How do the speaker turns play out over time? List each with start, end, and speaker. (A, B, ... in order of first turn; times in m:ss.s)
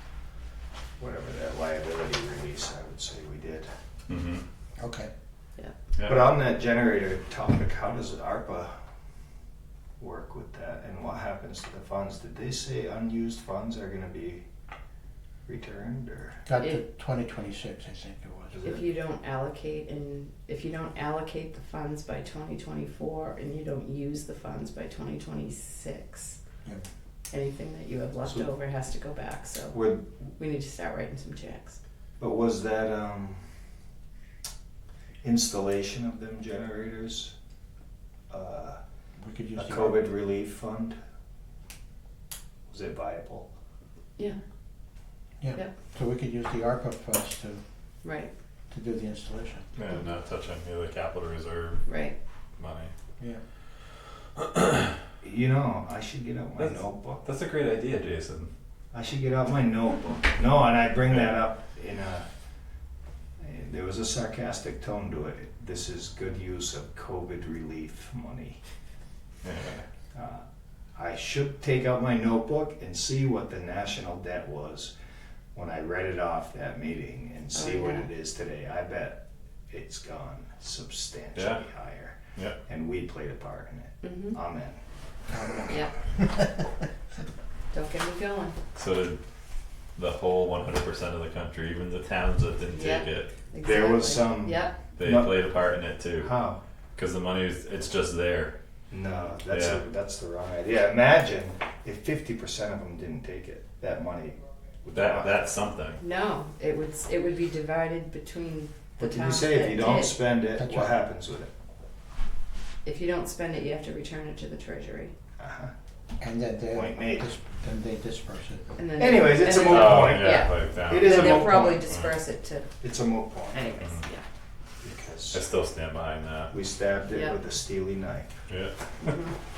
0:01.0-0:03.7 A
0:04.1-0:04.4 B
0:04.8-0:05.1 C
0:06.0-0:06.3 B
0:06.0-0:08.7 A
0:10.0-0:14.4 A
0:15.5-0:16.4 A
0:16.4-0:18.6 C
0:18.5-0:18.8 A
0:18.6-0:26.4 D
0:27.3-0:29.8 D
0:29.7-0:30.0 A
0:30.4-0:31.8 D
0:32.2-0:33.4 A
0:35.2-0:37.3 A
0:38.3-0:38.8 A
0:39.2-0:40.1 C
0:39.6-0:41.0 A
0:42.7-0:43.5 A
0:45.4-0:47.6 C
0:48.0-0:48.3 D
0:48.7-0:49.6 C
0:49.8-0:51.9 B
0:51.9-0:52.2 D
0:52.6-0:52.9 B
0:54.4-0:54.9 B
0:55.2-0:57.2 A
0:56.6-0:58.5 B
0:58.9-1:02.2 A
1:03.4-1:08.6 A
1:09.4-1:09.8 B
1:10.1-1:10.4 A
1:11.0-1:14.9 A
1:15.5-1:24.8 A
1:17.5-1:18.1 D
1:21.3-1:21.6 B
1:24.0-1:24.4 D
1:25.3-1:26.7 C
1:25.7-1:26.0 D
1:27.7-1:28.6 D
1:28.8-1:29.2 B
1:30.0-1:33.3 B
1:32.7-1:34.8 D
1:33.6-1:35.5 A
1:35.0-1:36.4 B
1:36.2-1:36.6 A
1:37.0-1:38.5 B
1:38.9-1:45.4 A
1:39.5-1:39.8 B
1:44.9-1:46.0 B
1:46.0-1:50.2 D
1:49.0-1:51.5 A
1:50.6-1:50.9 C
1:52.8-1:55.1 D
1:55.4-1:55.7 A
1:56.2-1:58.8 C
1:56.7-1:57.2 A
1:58.8-2:02.7 D
1:59.0-2:01.9 A
1:59.5-2:02.1 B
2:02.8-2:03.7 A
2:03.5-2:04.2 D
2:04.8-2:05.4 A
2:05.3-2:06.5 B
2:06.5-2:08.3 A
2:07.1-2:07.4 D
2:09.0-2:09.3 D